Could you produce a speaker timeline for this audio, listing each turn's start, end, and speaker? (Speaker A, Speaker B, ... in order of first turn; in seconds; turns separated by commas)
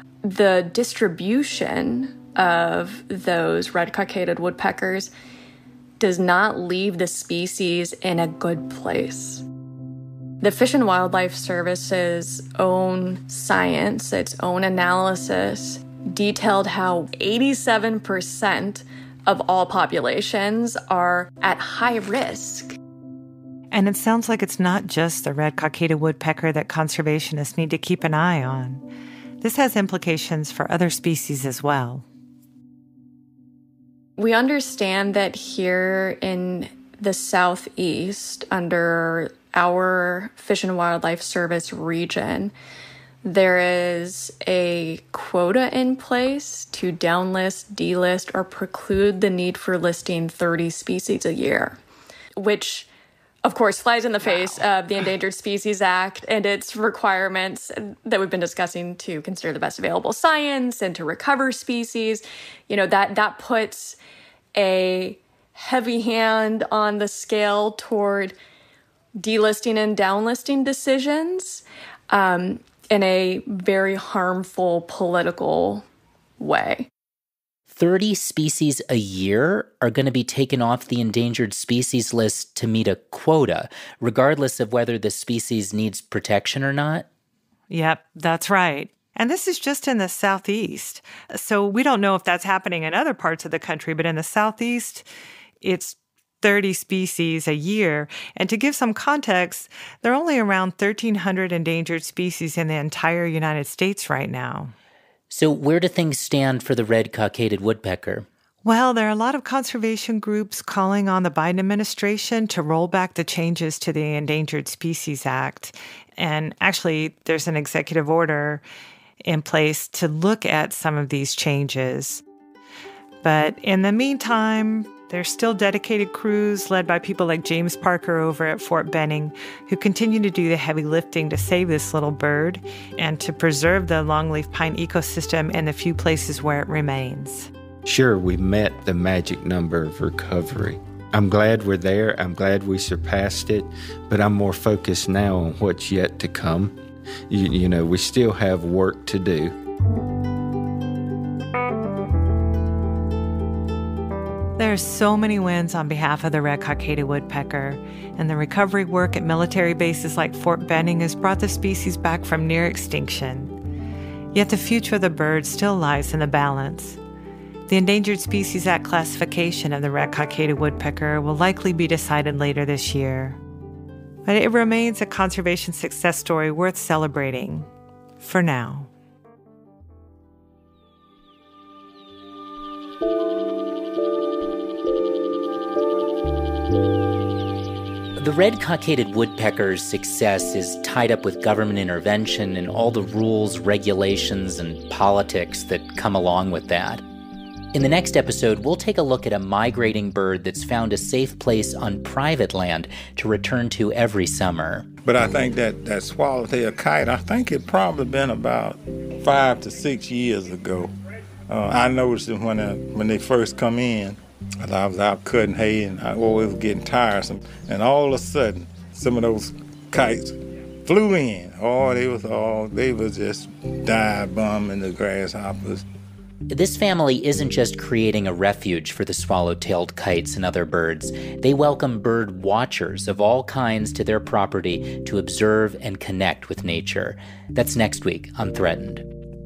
Speaker A: 0.2-5.1, Speaker A: 6.0-9.4, Speaker A: 10.4-22.8, Speaker B: 23.7-28.8, Speaker B: 29.4-32.0, Speaker A: 34.2-42.5, Speaker A: 43.2-51.8, Speaker A: 52.4-52.9, Speaker A: 53.4-64.0, Speaker A: 64.6-68.3, Speaker A: 69.2-75.8, Speaker A: 76.4-76.9, Speaker C: 77.7-87.1, Speaker B: 87.7-95.1, Speaker B: 95.6-104.7, Speaker C: 105.3-108.3, Speaker B: 108.6-118.6, Speaker B: 119.2-122.2, Speaker B: 123.2-137.5, Speaker D: 137.8-146.8, Speaker D: 147.3-149.6, Speaker B: 154.6-163.5, Speaker B: 164.3-167.0, Speaker B: 167.7-173.4, Speaker B: 174.3-177.7, Speaker B: 178.2-178.9, Speaker C: 188.2-197.0, Speaker C: 197.7-204.9, Speaker E: 205.1-210.9, Speaker E: 211.5-225.8, Speaker C: 226.5-239.1